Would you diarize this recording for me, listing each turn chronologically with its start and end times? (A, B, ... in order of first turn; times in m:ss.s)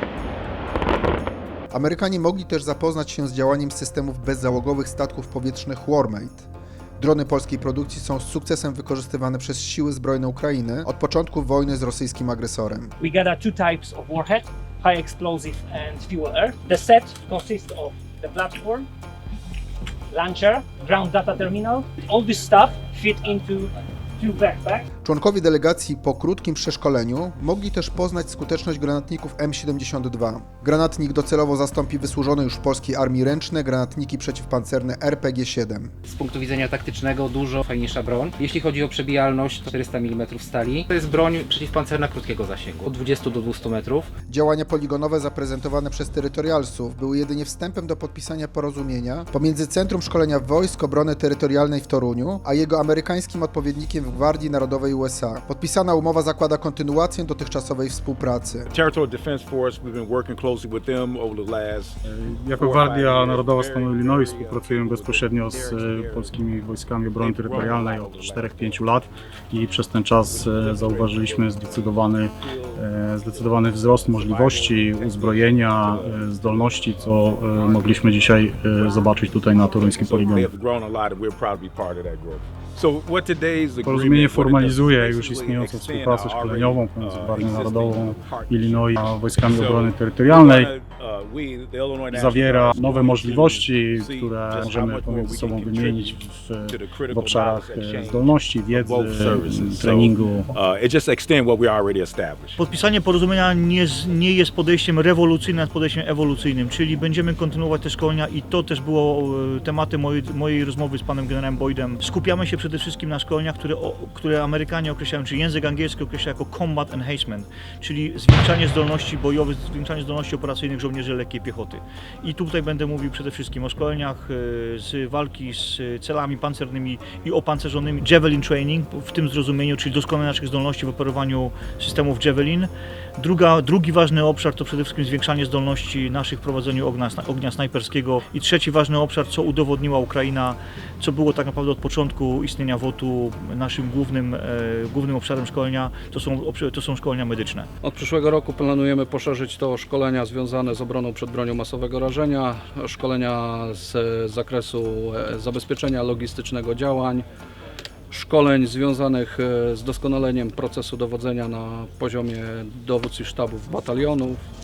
0:01.7-0:06.5 A
0:07.0-0:12.9 A
0:13.0-0:18.9 B
0:20.1-0:24.9 B
0:25.0-0:35.9 A
0:36.1-0:44.1 C
0:44.3-0:58.7 A
0:58.7-1:06.6 D
1:02.0-1:20.5 E
1:07.2-1:09.1 D
1:10.1-1:42.6 D
1:23.8-1:30.7 E
1:32.1-1:40.5 E
1:42.6-2:27.7 F
2:27.8-2:37.2 G
2:38.1-2:44.4 G